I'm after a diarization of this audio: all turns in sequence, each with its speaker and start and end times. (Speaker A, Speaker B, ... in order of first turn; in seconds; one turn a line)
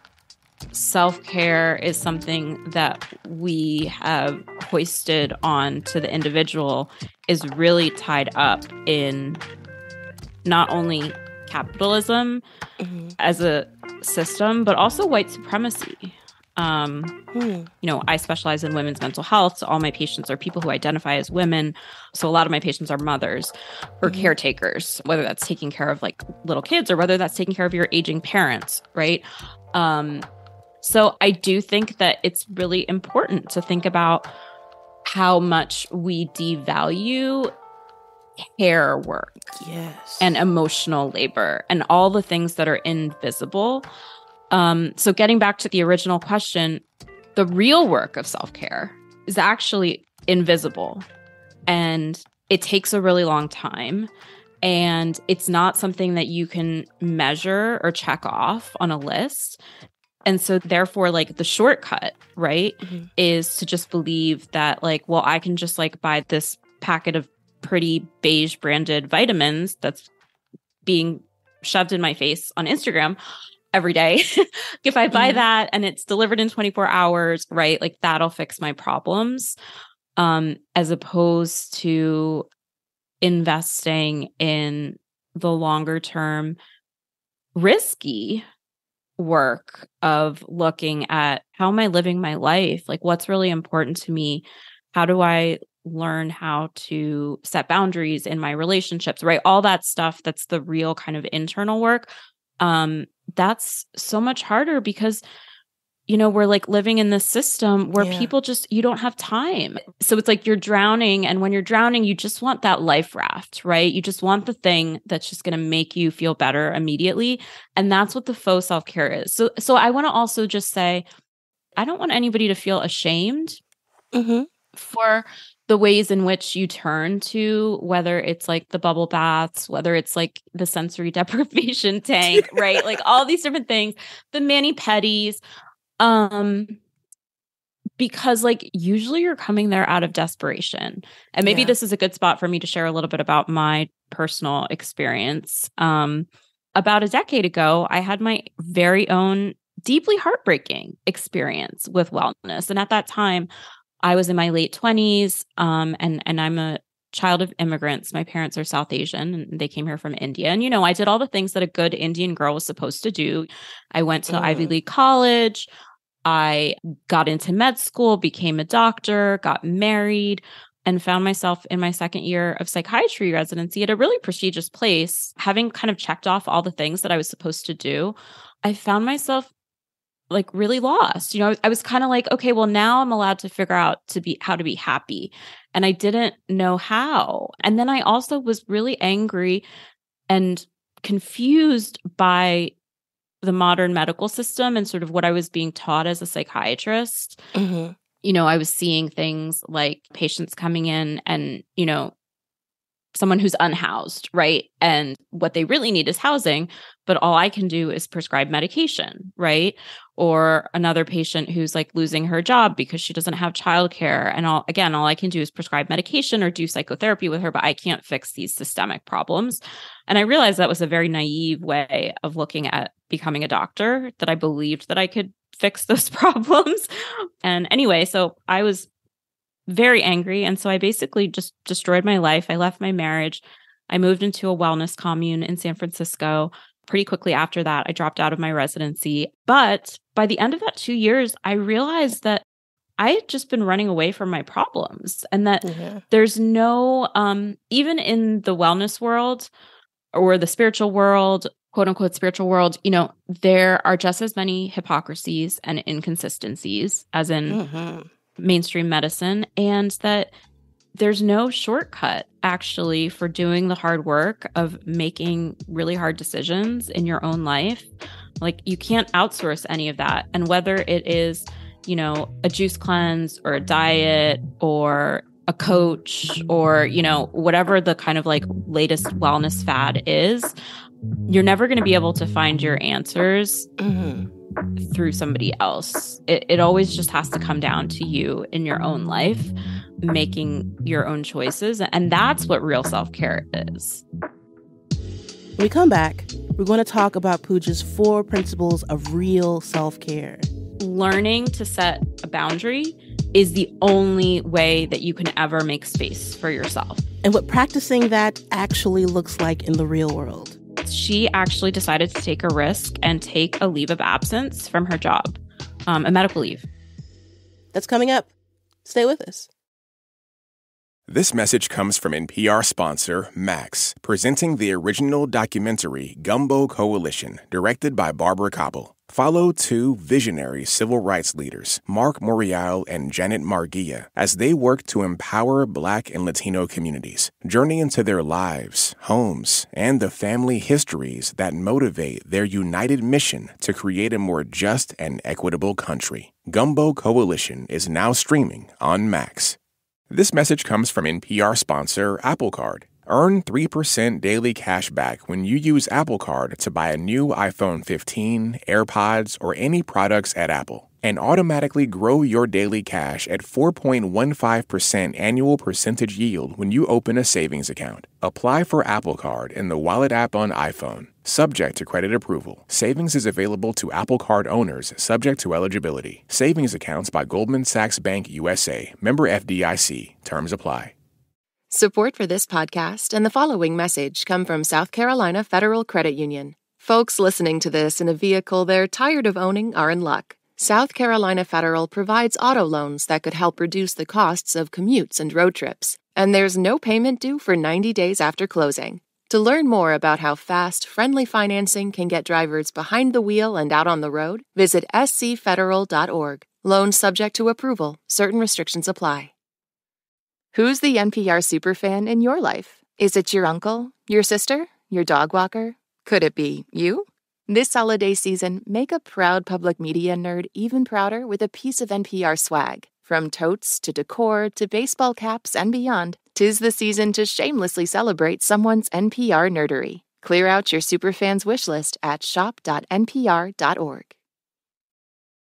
Speaker A: 0.7-9.4
Speaker A: 10.4-12.4
Speaker B: 12.8-13.1
Speaker A: 13.2-17.1
Speaker B: 17.3-17.7
Speaker A: 17.8-30.3
Speaker B: 24.0-24.3
Speaker A: 30.8-34.3
Speaker A: 35.1-37.5
Speaker A: 38.6-39.5
Speaker B: 39.5-40.4
Speaker A: 40.2-43.9
Speaker A: 44.5-46.8
Speaker A: 47.4-51.0
Speaker A: 51.7-54.1
Speaker A: 54.6-59.6
Speaker A: 60.2-70.1
Speaker B: 62.8-63.1
Speaker A: 70.8-73.2
Speaker A: 73.7-79.5
Speaker B: 75.1-75.4
Speaker A: 80.2-82.5
Speaker A: 83.2-86.6
Speaker A: 87.5-88.4
Speaker A: 89.2-105.2
Speaker A: 106.1-121.0
Speaker B: 108.0-108.3
Speaker A: 121.8-123.6
Speaker B: 124.1-124.5
Speaker A: 124.8-135.4
Speaker B: 132.3-132.8
Speaker A: 136.0-136.8
Speaker A: 138.0-153.5
Speaker B: 141.4-141.7
Speaker A: 154.0-165.7
Speaker B: 164.3-164.7
Speaker A: 166.2-179.5
Speaker A: 180.3-189.6
Speaker A: 190.3-192.7
Speaker A: 193.4-197.4
Speaker B: 197.5-197.9
Speaker A: 198.2-202.1
Speaker A: 203.1-226.9
Speaker A: 227.4-228.9
Speaker A: 229.7-242.4
Speaker A: 243.0-249.5
Speaker B: 245.6-246.0
Speaker A: 250.1-257.6
Speaker B: 257.5-258.1
Speaker A: 258.4-260.3
Speaker A: 260.9-267.9
Speaker A: 268.4-280.5
Speaker A: 281.3-283.7
Speaker B: 283.8-284.3
Speaker A: 284.8-294.0
Speaker B: 295.6-300.5
Speaker A: 300.8-307.0
Speaker B: 307.2-310.6
Speaker A: 310.8-316.7
Speaker B: 317.7-318.3
Speaker B: 318.8-319.5
Speaker C: 321.1-349.6
Speaker C: 350.1-380.9
Speaker D: 381.7-409.3
Speaker D: 410.5-434.1